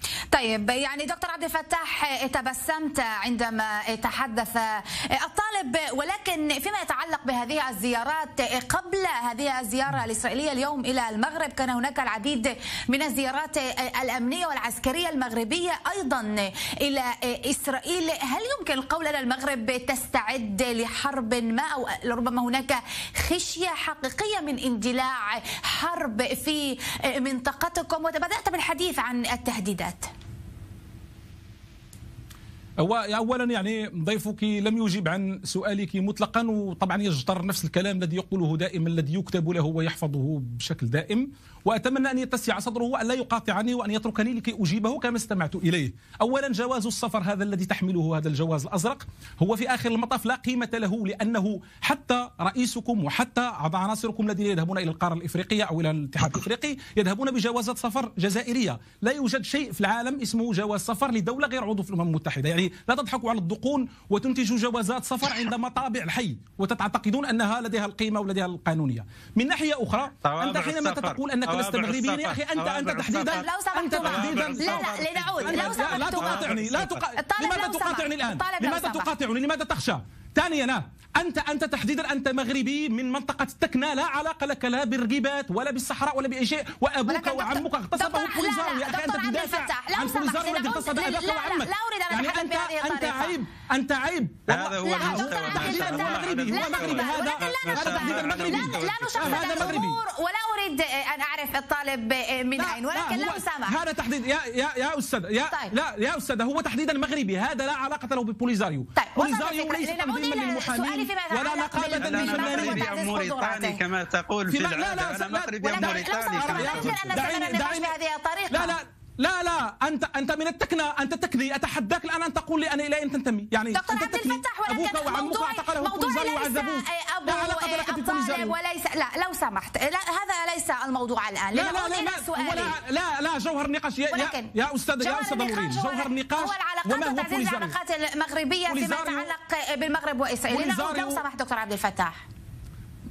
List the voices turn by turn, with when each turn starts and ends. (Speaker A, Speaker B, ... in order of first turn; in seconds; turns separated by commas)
Speaker A: 0.3-30.1, Speaker B: 32.8-74.9, Speaker C: 70.2-73.5, Speaker A: 73.3-76.5, Speaker C: 74.0-77.0, Speaker B: 75.4-100.0, Speaker A: 77.2-79.1, Speaker A: 87.1-93.4, Speaker C: 94.5-99.8, Speaker A: 94.8-103.8, Speaker B: 102.5-112.9, Speaker A: 105.5-105.7, Speaker A: 109.0-113.8, Speaker C: 111.8-117.2, Speaker B: 114.5-117.9, Speaker A: 115.7-118.8, Speaker B: 118.5-128.5, Speaker A: 123.7-132.8, Speaker B: 131.5-137.7, Speaker A: 134.1-142.2, Speaker B: 138.7-139.3, Speaker B: 140.5-141.2